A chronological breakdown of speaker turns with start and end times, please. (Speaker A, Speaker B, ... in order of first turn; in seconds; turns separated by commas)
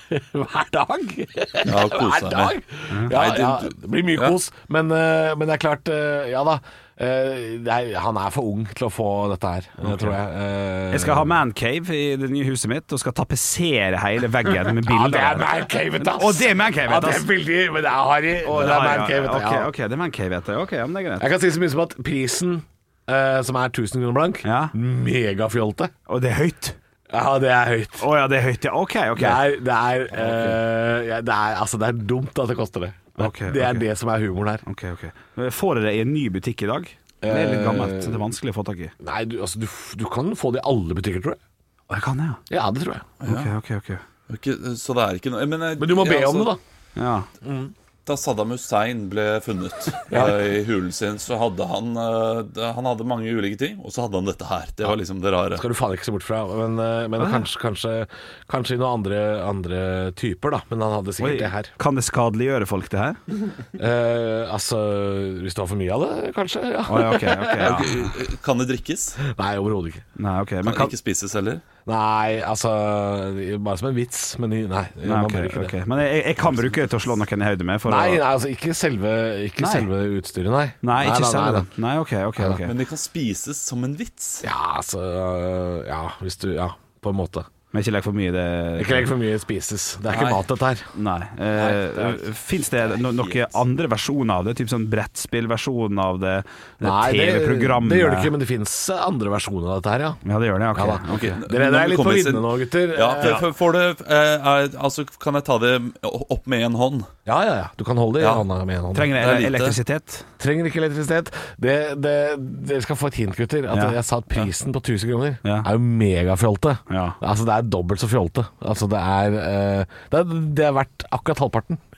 Speaker A: 0.1-11.3, Speaker B: 1.7-2.6, Speaker B: 3.1-4.4, Speaker C: 10.9-17.3, Speaker A: 14.7-19.7, Speaker C: 18.4-21.3, Speaker A: 21.2-25.9, Speaker C: 24.4-24.7, Speaker C: 26.1-26.8, Speaker A: 27.1-28.1, Speaker C: 28.0-29.4, Speaker A: 29.2-34.6, Speaker C: 30.2-30.6, Speaker C: 33.2-33.9, Speaker C: 34.6-38.9, Speaker A: 37.2-38.2, Speaker A: 39.0-41.4, Speaker C: 41.9-42.4, Speaker A: 42.5-43.1, Speaker B: 43.2-43.5, Speaker C: 43.2-44.0, Speaker B: 44.3-46.5, Speaker A: 45.8-46.6, Speaker C: 47.0-47.3, Speaker A: 47.4-47.7, Speaker B: 48.0-55.6, Speaker A: 50.1-50.5, Speaker A: 55.5-61.7, Speaker C: 61.2-63.2, Speaker A: 63.8-68.0, Speaker C: 66.9-67.9, Speaker B: 67.6-69.2, Speaker A: 69.2-70.0, Speaker C: 70.2-70.9, Speaker B: 70.6-71.6, Speaker A: 71.9-75.7, Speaker C: 75.0-78.2, Speaker A: 77.9-81.7, Speaker C: 79.6-79.9, Speaker C: 80.8-82.7, Speaker B: 82.6-84.4, Speaker A: 84.4-87.5, Speaker C: 87.7-89.1, Speaker A: 88.8-90.9, Speaker C: 90.1-90.4, Speaker C: 90.9-98.3, Speaker A: 91.5-92.2, Speaker A: 96.8-100.2, Speaker C: 100.2-101.4, Speaker A: 100.7-103.4, Speaker B: 101.1-107.1, Speaker A: 107.3-109.1, Speaker B: 108.2-108.5, Speaker C: 109.0-110.2, Speaker B: 109.2-109.8, Speaker A: 110.4-121.8, Speaker C: 113.7-114.0, Speaker C: 116.9-117.2